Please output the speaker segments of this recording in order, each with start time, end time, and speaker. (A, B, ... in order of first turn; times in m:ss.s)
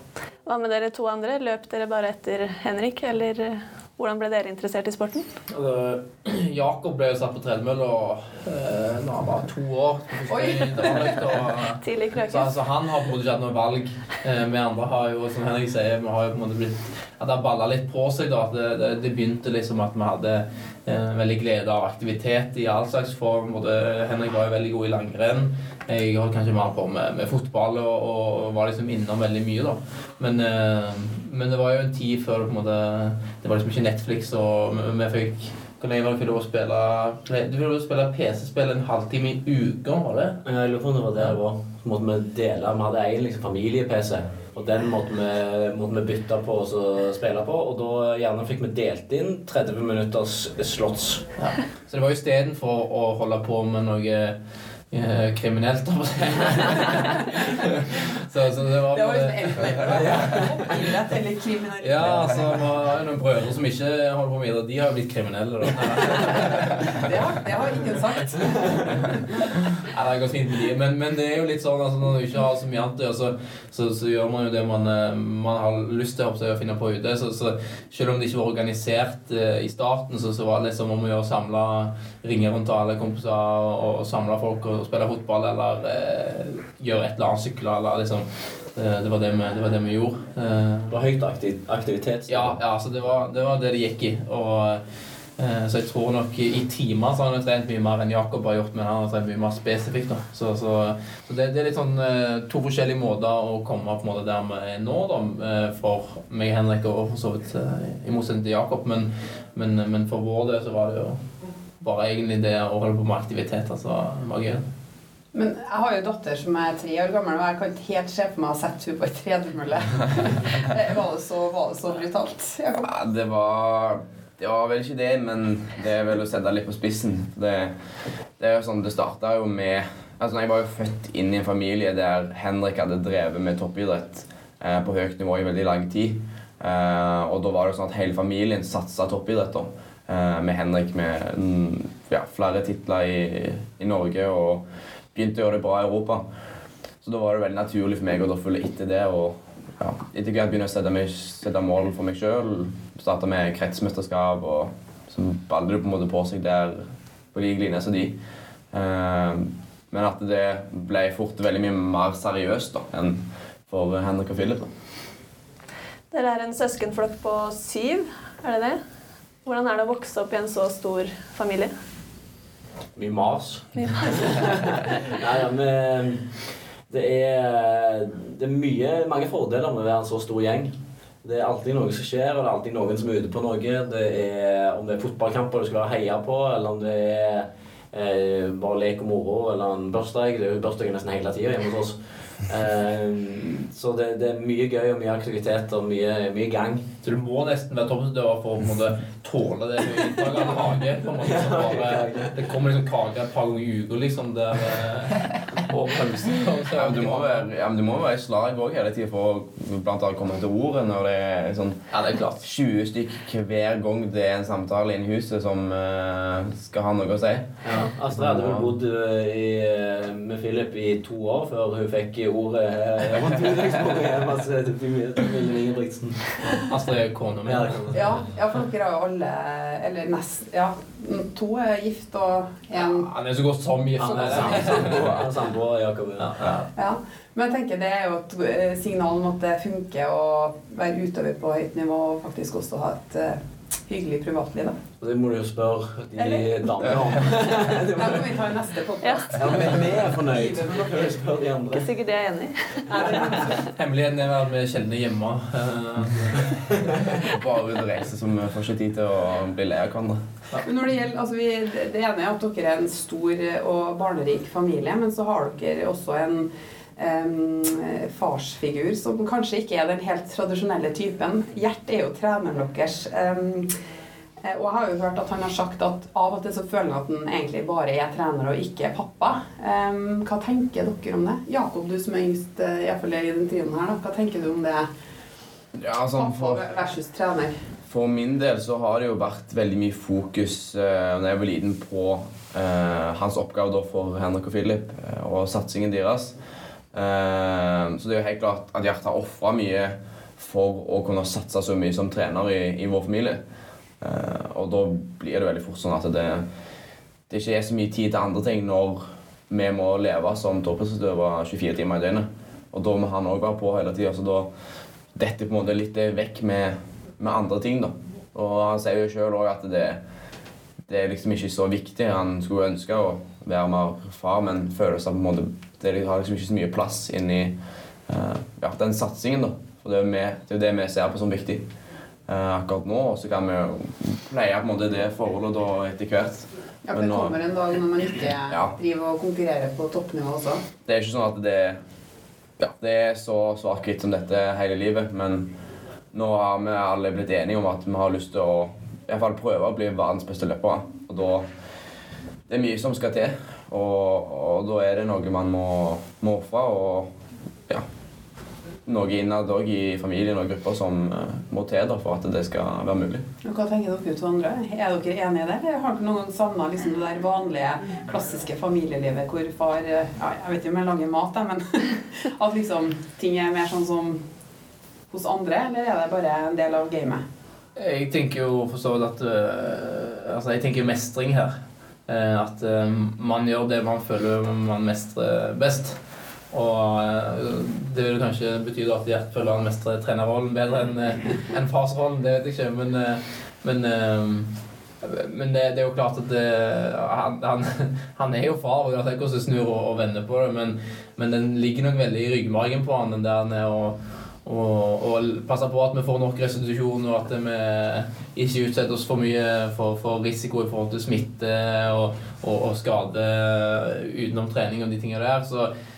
0:00.4-0:05.3 A
0:05.5-0:40.4 B
0:10.3-0:11.2 C
0:11.8-0:12.6 A
0:40.4-0:51.3 D
0:51.4-0:54.4 B
0:54.9-1:00.2 B
0:58.9-1:02.6 C
0:59.9-1:00.8 D
1:01.8-1:07.1 B
1:06.9-1:09.2 C
1:09.5-1:30.9 B
1:30.9-1:32.6 D
1:32.3-1:34.8 B
1:35.4-1:51.2 B
1:51.8-1:54.7 B
1:55.3-2:02.9 C
2:02.8-2:07.7 E
2:08.4-2:24.6 E
2:25.1-2:26.2 E
2:27.0-2:38.2 E
2:38.7-2:44.7 E
2:46.1-2:48.8 A
2:49.4-2:51.7 A
2:53.0-2:56.2 D
2:53.8-2:54.4 A
2:56.9-3:00.7 D
3:01.2-3:16.9 D
3:17.0-3:27.4 B
3:21.2-3:22.4 D
3:26.7-3:31.8 E
3:31.9-3:32.4 B
3:32.4-3:38.7 E
3:37.6-3:46.6 D
3:46.6-3:48.0 B
3:47.4-3:48.0 D
3:47.9-3:53.1 C
3:52.8-3:55.3 B
3:54.0-3:56.6 D
3:54.3-3:54.6 C
3:56.2-3:56.6 B
3:56.8-4:04.8 C
4:05.0-4:08.5 D
4:06.2-4:07.0 C
4:07.9-4:11.2 C
4:09.0-4:09.4 A
4:09.4-4:11.9 D
4:11.7-4:13.0 A
4:12.9-4:13.6 C
4:13.1-4:13.4 D
4:13.4-4:16.9 B
4:17.2-4:20.2 E
4:20.6-4:33.7 C
4:34.4-4:44.9 C
4:45.7-4:46.6 E
4:46.1-4:47.5 C
4:47.9-4:56.3 E
4:56.9-5:03.4 E
5:04.0-5:06.4 E
5:07.3-5:14.5 E
5:15.1-5:20.0 E
5:20.9-5:27.5 E
5:28.1-5:31.7 E
5:32.3-5:37.4 E
5:36.8-5:40.6 C
5:40.8-5:41.8 E
5:42.6-5:45.5 E
5:46.1-5:51.5 E
5:52.5-5:57.1 E
5:58.8-6:03.2 E
6:03.4-6:14.2 C
6:15.1-6:17.2 C
6:17.8-6:21.6 B
6:22.1-6:26.0 B
6:26.5-6:34.5 B
6:35.0-6:55.7 B